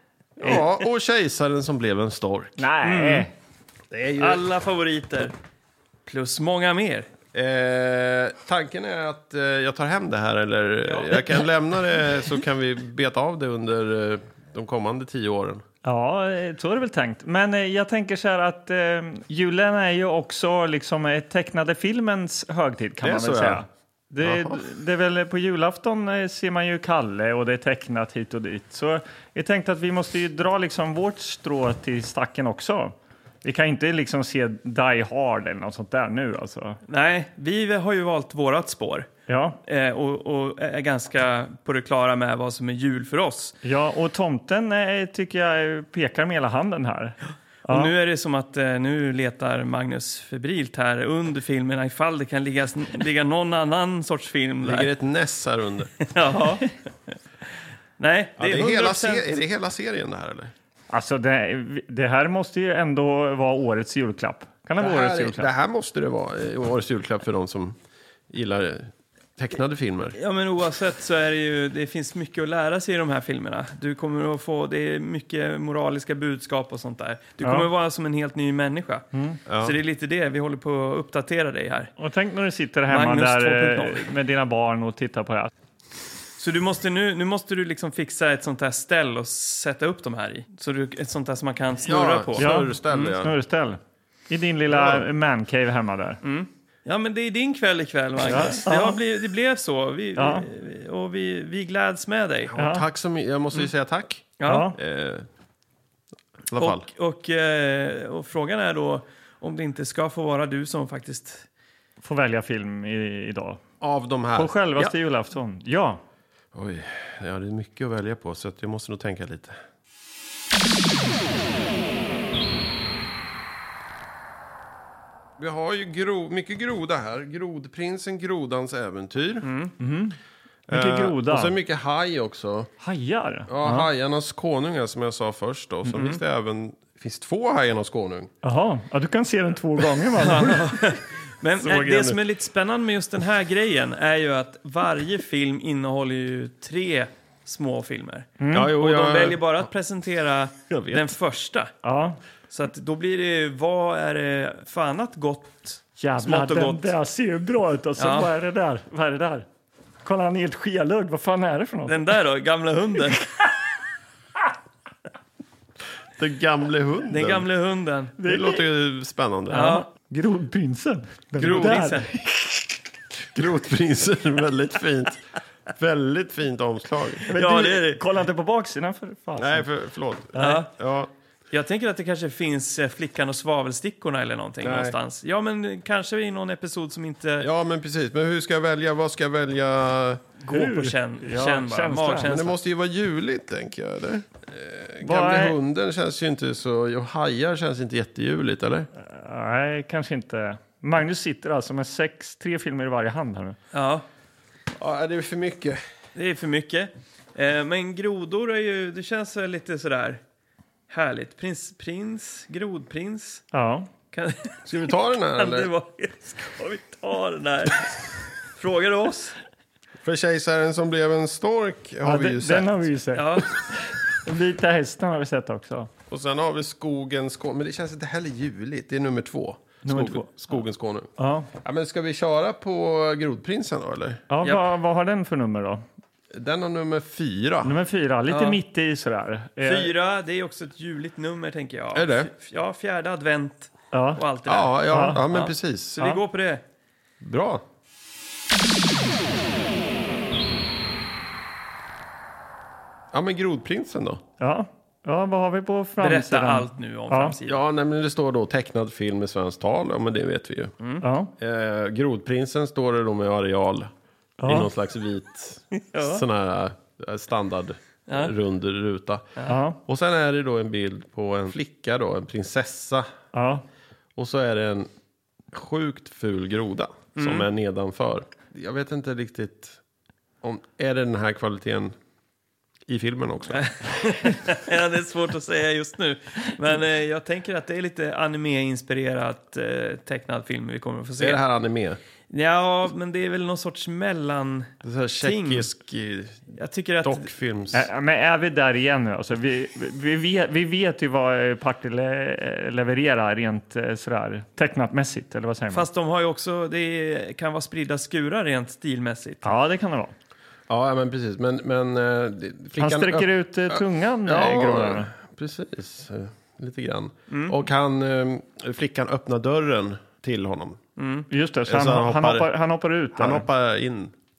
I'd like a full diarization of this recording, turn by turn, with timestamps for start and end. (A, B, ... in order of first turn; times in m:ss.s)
0:00.4-0:02.7 A
0:02.6-0:03.3 B
0:02.8-0:03.3 C
0:03.9-0:04.4 A
0:04.2-0:05.3 C
0:06.0-0:07.1 C
0:07.3-0:15.6 A
0:10.8-0:11.4 C
0:15.8-0:36.8 B
0:23.0-0:23.6 A
0:24.2-0:24.6 A
0:36.9-0:39.1 C
0:39.3-0:39.6 B
0:39.6-0:43.6 C
0:43.6-0:47.9 B
0:47.7-0:54.9 C
0:54.6-0:56.0 A
0:56.0-0:57.1 C
0:58.0-0:59.3 C
0:58.4-1:00.5 A
1:00.9-1:05.5 B
1:04.8-1:07.8 A
1:08.3-1:10.2 A
1:10.2-1:21.9 C
1:17.4-1:17.7 B
1:19.5-1:19.8 A
1:22.0-1:25.5 B
1:22.9-1:24.1 C
1:26.4-1:33.1 C
1:31.8-1:33.3 A
1:32.4-1:36.2 B
1:34.7-1:35.1 A
1:36.2-1:42.5 C
1:38.3-1:39.0 B
1:40.2-1:40.4 B
1:42.5-1:45.3 A
1:42.6-1:42.8 B
1:44.4-1:44.7 C
1:44.4-1:44.8 B
1:46.5-1:46.9 A
1:46.6-1:51.4 C
1:52.0-1:53.6 B
1:53.8-1:54.5 A
1:54.4-1:56.0 B
1:56.5-1:59.6 A
2:05.4-2:09.5 A
2:09.4-2:09.7 C
2:09.8-2:10.2 B
2:10.7-2:12.7 A
2:10.7-2:11.5 B
2:12.8-2:13.9 B
2:13.5-2:18.3 A
2:15.9-2:16.2 C
2:18.4-2:20.7 B
2:20.2-2:31.7 C
2:21.6-2:22.2 A
2:28.4-2:28.7 B
2:28.5-2:29.7 A
2:30.7-2:31.1 A
2:31.8-2:32.2 B
2:32.5-2:36.9 C
2:36.0-2:39.5 B
2:38.0-2:38.3 C
2:40.0-2:42.1 B
2:41.9-2:43.3 C
2:46.2-2:47.5 A
2:47.1-2:48.1 C
2:48.2-2:48.6 B
2:48.2-2:49.8 A
2:49.5-2:49.9 C
2:49.8-2:52.1 B
2:51.4-2:51.9 A
2:51.4-2:52.1 C
2:53.3-2:57.3 A
2:57.3-2:59.7 B
2:57.3-2:58.0 C
2:59.4-3:01.1 A
3:00.4-3:00.6 B
3:00.4-3:00.7 C
3:01.5-3:07.5 C
3:04.6-3:05.0 A
3:07.4-3:10.3 A
3:10.4-3:12.6 C
3:10.5-3:12.3 B
3:12.2-3:18.9 A
3:15.0-3:15.6 B
3:19.0-3:23.6 B
3:23.7-3:24.0 C
3:24.7-3:25.8 A
3:26.1-3:30.2 C
3:30.9-3:33.4 C
3:33.5-3:33.9 B
3:34.1-3:34.7 C
3:34.6-3:35.7 A
3:35.3-3:38.0 C
3:38.6-3:39.3 C
3:40.0-3:42.9 A
3:42.0-3:45.9 B
3:43.1-3:43.5 C
3:46.1-3:51.1 A
3:49.8-3:50.3 B
3:51.2-3:51.5 B
3:51.6-3:54.2 A
3:54.3-3:55.8 B
3:56.3-3:57.8 A
3:57.6-3:59.9 B
3:58.3-3:58.6 C
3:59.6-4:06.6 C
4:01.9-4:02.3 A
4:03.9-4:04.2 B
4:04.4-4:06.0 A
4:04.9-4:05.2 B
4:07.2-4:07.6 A
4:13.1-4:14.2 A
4:14.4-4:17.3 B
4:16.0-4:17.6 C
4:17.5-4:20.7 A
4:21.0-4:21.3 B
4:21.4-4:23.9 A
4:24.4-4:24.7 B
4:24.4-4:29.2 A
4:25.8-4:26.2 C
4:28.1-4:28.3 C
4:29.4-4:29.8 B
4:29.9-4:33.1 A
4:33.3-4:33.6 B
4:34.2-4:34.9 A
4:35.5-4:39.8 A
4:37.2-4:37.5 C
4:40.4-4:41.9 A
4:42.9-4:43.7 A
4:43.5-4:51.4 C
4:51.2-4:52.0 A
4:52.3-4:55.7 C
4:54.8-4:56.5 A
4:56.6-4:57.3 C
4:57.0-4:57.9 A
4:57.7-5:05.9 B
5:05.7-5:09.5 C
5:09.4-5:10.1 B
5:10.7-5:20.8 A
5:12.8-5:15.1 B
5:17.3-5:17.6 C
5:21.0-5:21.3 C
5:21.3-5:23.5 B
5:21.7-5:22.5 A
5:23.1-5:24.1 A